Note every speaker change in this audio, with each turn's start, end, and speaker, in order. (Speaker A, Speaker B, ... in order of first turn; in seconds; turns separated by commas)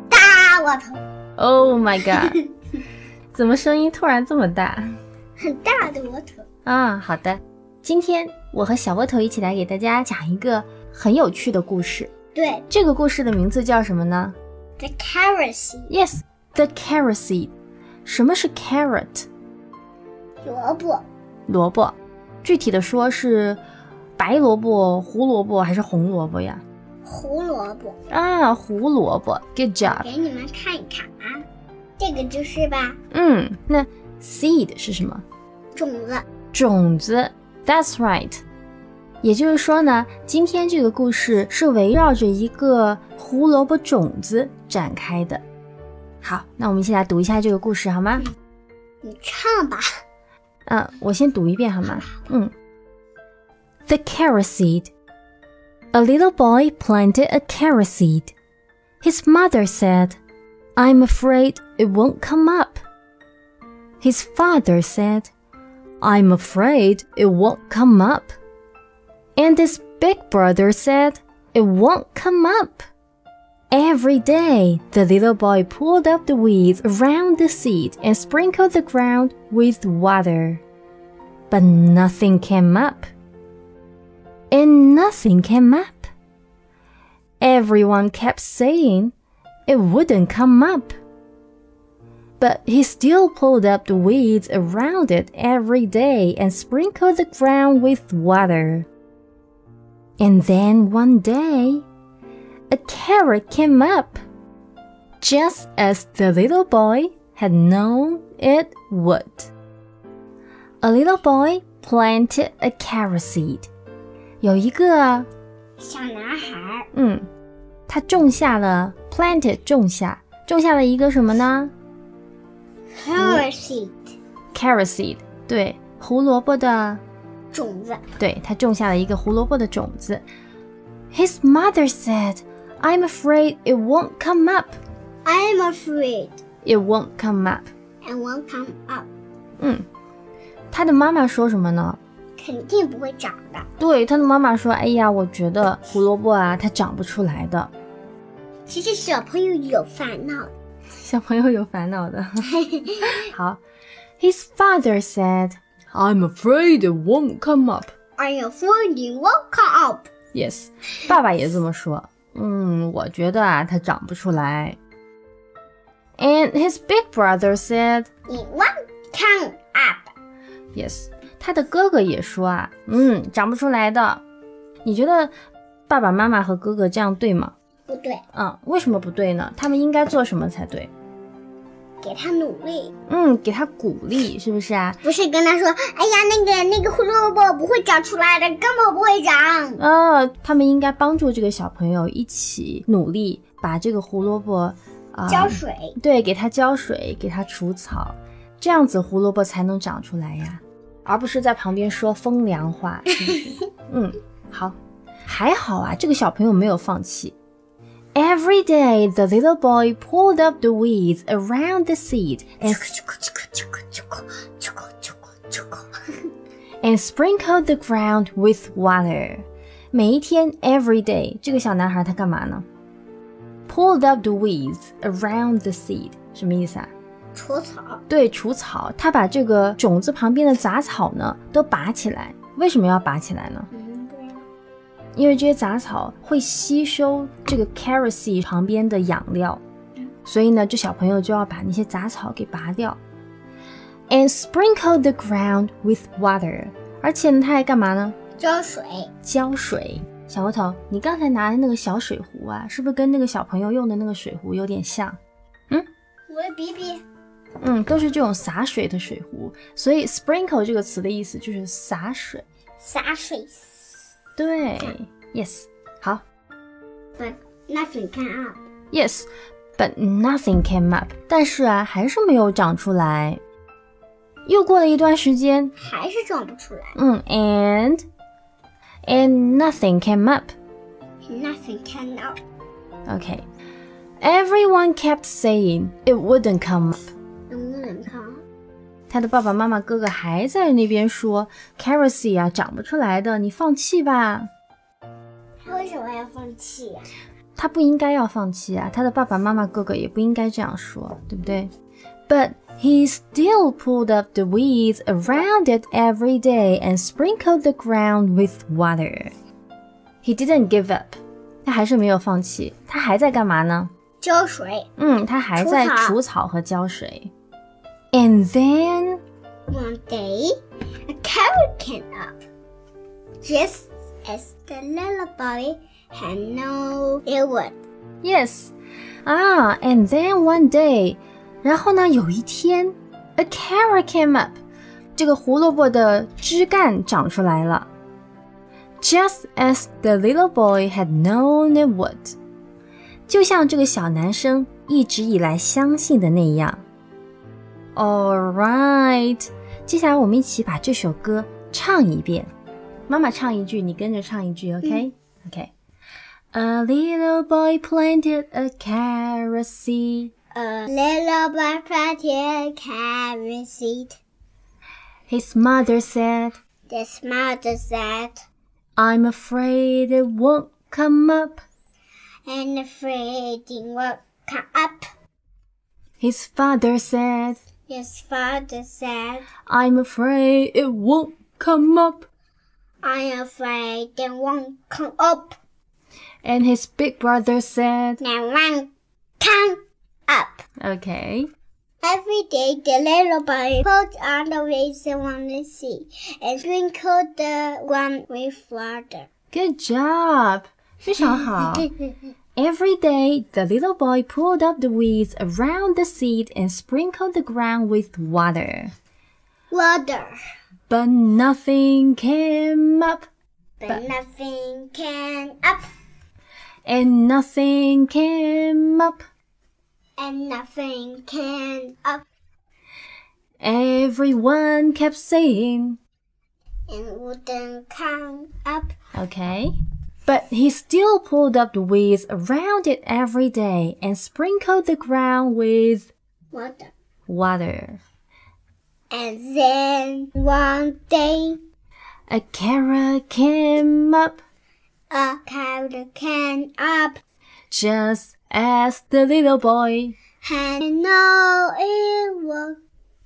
Speaker A: 0.1-1.0, Speaker B: 1.4-2.4, Speaker B: 3.3-4.8, Speaker A: 5.4-6.5, Speaker B: 6.7-12.1, Speaker A: 12.3-12.7, Speaker B: 12.7-14.3, Speaker A: 14.8-15.9, Speaker B: 15.9-17.5, Speaker B: 18.0-19.3, Speaker A: 20.4-21.0, Speaker B: 21.5-23.6, Speaker B: 24.2-26.6, Speaker A: 27.0-28.0, Speaker B: 28.1-30.1, Speaker A: 29.8-31.4, Speaker A: 32.0-33.0, Speaker B: 33.1-35.2, Speaker A: 35.7-36.2, Speaker B: 36.5-38.4, Speaker B: 39.2-45.4, Speaker B: 46.2-48.2, Speaker A: 49.0-49.9, Speaker B: 50.6-52.5, Speaker A: 51.9-52.2, Speaker B: 53.9-54.9, Speaker B: 55.9-58.3, Speaker B: 59.0-60.2, Speaker B: 60.8-62.8, Speaker B: 64.0-65.3, Speaker B: 66.0-68.3, Speaker B: 69.3-72.8, Speaker B: 73.7-80.6, Speaker B: 81.5-83.1, Speaker B: 84.5-86.1, Speaker B: 87.4-89.1, Speaker B: 89.7-90.9, Speaker B: 92.4-98.9, Speaker B: 100.2-101.8, Speaker B: 102.7-104.2, Speaker B: 105.2-109.5, Speaker B: 110.8-113.7, Speaker B: 114.4-115.3, Speaker A: 115.8-116.9, Speaker B: 116.9-117.3, Speaker B: 117.9-121.7, Speaker A: 123.0-124.1, Speaker B: 123.2-123.5, Speaker B: 124.5-127.0, Speaker A: 127.5-128.1, Speaker B: 128.2-130.2, Speaker B: 131.1-134.8, Speaker A: 135.2-136.4, Speaker B: 136.6-137.7, Speaker A: 138.0-139.1, Speaker B: 139.6-139.8, Speaker B: 140.7-142.0, Speaker A: 142.4-143.7, Speaker B: 143.8-147.7, Speaker A: 148.7-150.5, Speaker B: 151.0-152.5, Speaker A: 152.5-153.2, Speaker B: 153.1-153.6, Speaker B: 154.2-157.9, Speaker A: 158.2-160.1, Speaker B: 160.3-164.8, Speaker B: 166.2-168.1, Speaker A: 168.3-170.1, Speaker B: 170.7-174.2, Speaker B: 174.8-175.3, Speaker B: 175.9-177.5, Speaker A: 177.9-178.2, Speaker B: 178.3-180.9, Speaker A: 182.0-182.9, Speaker B: 183.1-185.0, Speaker A: 185.0-189.8, Speaker B: 189.8-207.3, Speaker A: 195.3-196.0, Speaker B: 208.1-212.9, Speaker A: 212.7-215.9, Speaker B: 216.8-222.6, Speaker B: 223.7-226.9, Speaker A: 227.3-228.0, Speaker B: 228.1-233.7, Speaker A: 233.7-234.4, Speaker B: 235.1-239.6, Speaker B: 240.2-243.0, Speaker B: 244.1-248.2, Speaker A: 248.4-249.1, Speaker B: 249.2-255.2, Speaker A: 256.3-257.0, Speaker B: 257.6-262.4, Speaker A: 262.8-263.9, Speaker B: 264.4-266.2, Speaker A: 267.2-268.6, Speaker B: 268.9-273.4, Speaker B: 274.4-275.7, Speaker A: 275.8-277.0, Speaker B: 276.9-278.0, Speaker B: 279.1-280.5, Speaker A: 281.3-282.4, Speaker B: 283.1-283.4, Speaker B: 284.2-287.1, Speaker A: 287.5-288.4, Speaker B: 289.1-294.5, Speaker A: 295.6-297.0, Speaker B: 297.6-301.7, Speaker B: 302.3-309.3, Speaker B: 310.2-313.9, Speaker A: 314.2-314.9, Speaker B: 315.0-317.3, Speaker A: 315.6-316.2, Speaker B: 318.1-319.2, Speaker A: 319.7-320.5, Speaker A: 321.1-322.4, Speaker A: 323.4-327.8, Speaker B: 328.2-328.7, Speaker B: 329.2-334.6, Speaker B: 335.1-337.9, Speaker B: 339.0-342.4, Speaker B: 343.3-346.8, Speaker B: 347.9-352.5, Speaker B: 353.1-355.7, Speaker B: 356.5-360.3, Speaker A: 360.5-364.2, Speaker B: 365.3-366.6, Speaker A: 366.9-368.4, Speaker B: 369.0-371.6, Speaker A: 372.5-375.1, Speaker B: 376.2-377.6, Speaker A: 377.9-379.5, Speaker B: 379.7-382.3, Speaker A: 383.0-385.6, Speaker B: 386.4-388.2, Speaker A: 388.2-390.6, Speaker B: 390.8-391.5, Speaker A: 392.0-399.3, Speaker B: 399.5-401.9, Speaker B: 402.6-408.9, Speaker A: 409.7-410.4, Speaker B: 410.9-413.2, Speaker A: 413.8-415.9, Speaker B: 416.9-419.2, Speaker A: 420.2-422.2, Speaker B: 423.6-426.0, Speaker A: 426.9-428.9, Speaker B: 429.1-429.7, Speaker B: 430.2-436.1, Speaker A: 436.5-436.9, Speaker B: 437.3-438.0, Speaker A: 439.1-441.6, Speaker B: 442.3-444.4, Speaker A: 445.1-447.2, Speaker B: 447.7-450.1, Speaker A: 450.4-452.8